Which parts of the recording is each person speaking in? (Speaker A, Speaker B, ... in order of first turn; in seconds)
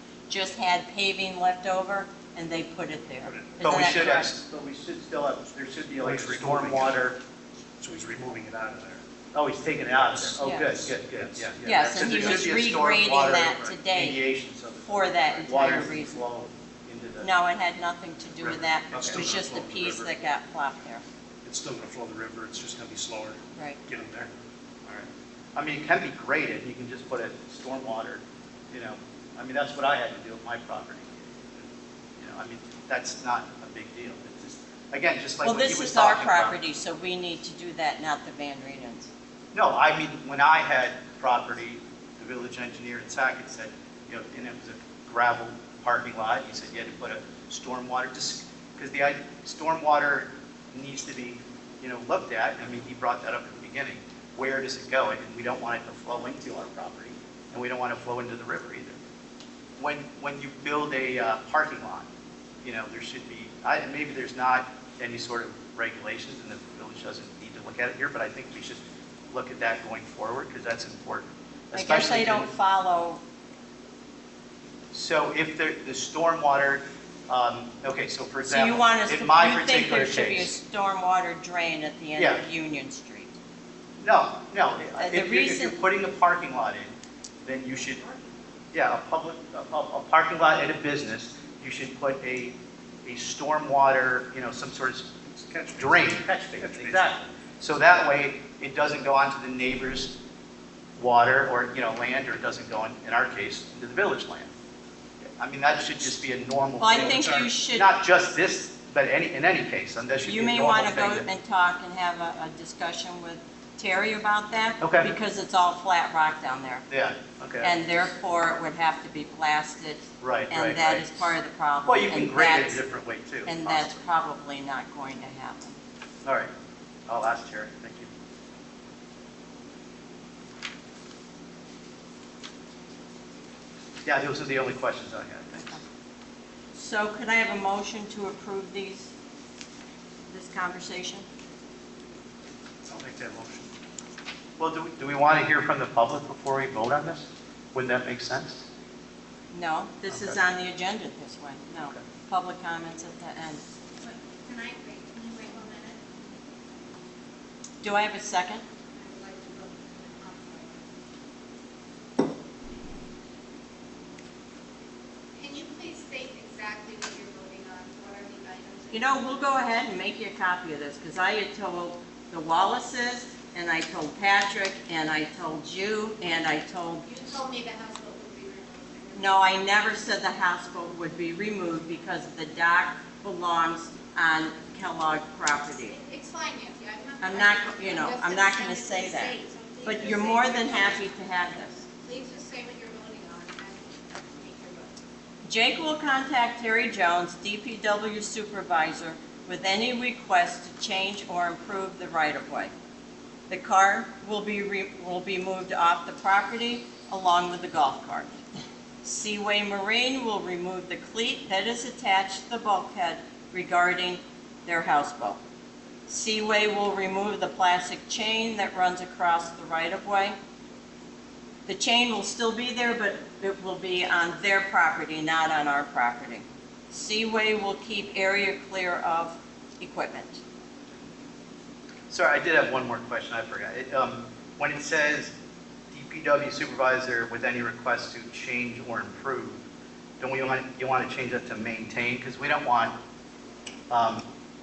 Speaker A: 0.3-4.3, 10.4-10.7, 11.6-14.2, 14.8-16.2, 17.2-21.0, 35.4-39.1, 71.7-73.2, 78.4-83.3, 85.0-85.8, 106.8-107.9, 110.2-116.8, 117.6-122.8, 123.5-125.8, 136.7-139.1, 140.3-141.2, 149.5-153.6, 157.8-158.6, 168.9-177.1, 179.1-186.0, 187.2-191.8, 195.4-202.7, 203.5-208.4, 209.0-215.4, 216.1-220.4, 221.7-230.4
Speaker B: 3.3-3.6, 6.0-7.1, 7.8-9.0, 10.1-12.5, 18.4-20.1, 21.4-24.3, 95.3-97.1, 142.8-143.7
Speaker C: 3.6-7.2, 9.3-17.3, 18.9-19.2, 24.8-31.6, 32.2-36.6, 39.5-59.0, 59.8-62.1, 62.6-72.5, 74.9-80.5, 82.2-82.4, 84.0-88.0, 88.7-95.2, 95.7-100.2, 101.0-104.5, 105.4-111.3, 114.8-115.1, 116.9-117.8, 120.2-121.2, 121.8-124.0, 126.2-126.5, 127.1-128.1, 134.0-135.8, 144.6-148.7, 150.1-150.4, 232.1-235.3, 235.9-239.6, 240.2-242.9, 243.9-244.2
Speaker D: 154.0-156.2, 158.9-160.8, 165.3-169.3, 177.0-179.5, 185.9-191.0, 192.0-194.9